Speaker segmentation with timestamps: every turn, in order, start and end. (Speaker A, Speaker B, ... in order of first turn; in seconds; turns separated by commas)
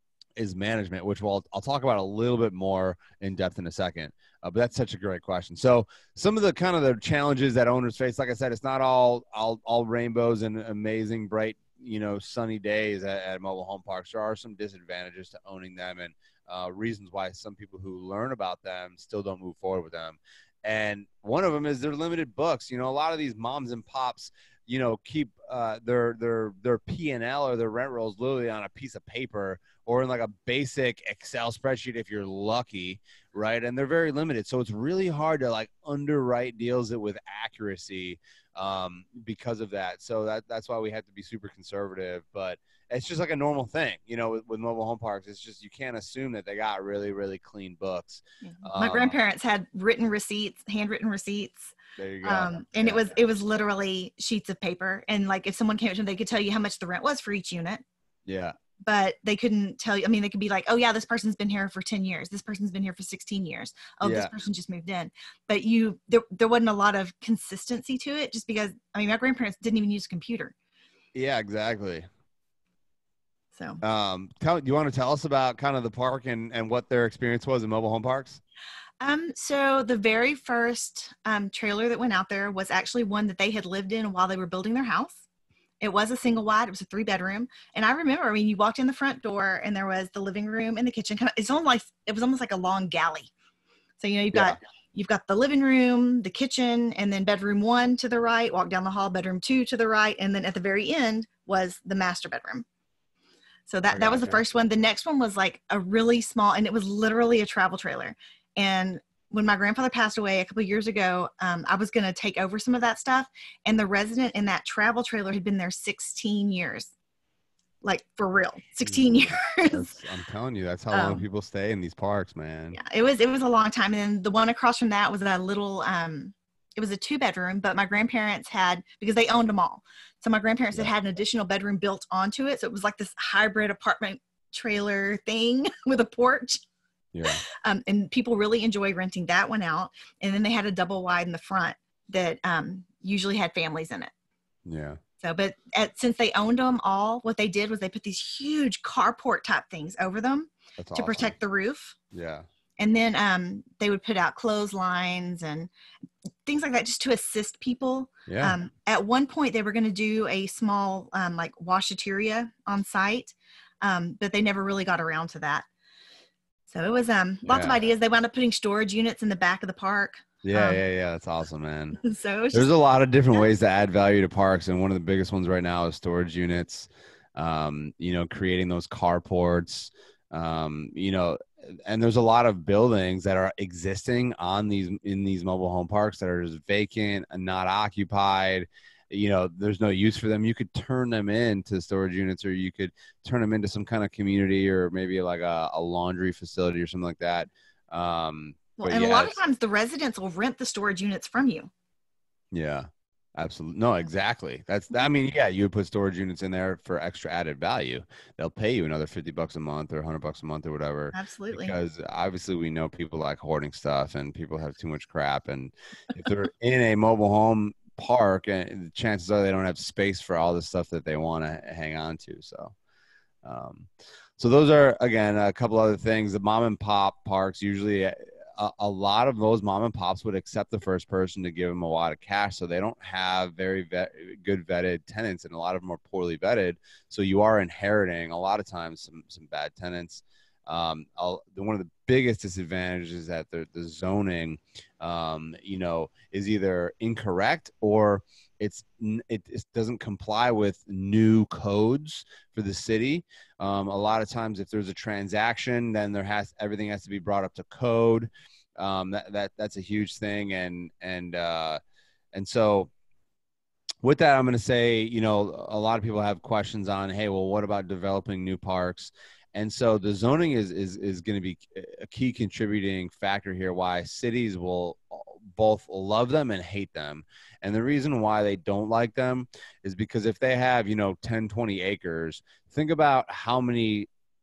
Speaker A: 0.4-49.2, Speaker B: 48.4-57.8, Speaker A: 52.0-53.2, Speaker A: 58.3-58.5, Speaker B: 58.8-70.5, Speaker A: 64.0-64.3, Speaker A: 71.1-72.0, Speaker B: 73.5-73.8, Speaker A: 73.8-78.4, Speaker B: 79.0-85.2, Speaker B: 85.8-93.3, Speaker B: 94.0-102.7, Speaker A: 94.3-94.6, Speaker B: 103.7-116.9, Speaker A: 103.9-104.4, Speaker B: 117.8-119.9, Speaker A: 118.8-122.8, Speaker B: 120.9-121.2, Speaker B: 122.7-136.6, Speaker A: 137.1-137.4, Speaker B: 137.6-144.1, Speaker A: 144.7-145.0, Speaker B: 145.2-152.0, Speaker A: 150.8-151.3, Speaker A: 152.1-152.5, Speaker B: 152.8-155.7, Speaker B: 156.5-165.7, Speaker A: 158.3-158.6, Speaker B: 166.7-170.8, Speaker A: 167.5-167.8, Speaker A: 170.4-172.0, Speaker B: 172.0-172.7, Speaker A: 172.5-199.4, Speaker B: 198.8-201.7, Speaker A: 202.5-222.8, Speaker B: 211.1-211.8, Speaker A: 223.4-261.8, Speaker A: 262.3-262.9, Speaker A: 264.0-284.1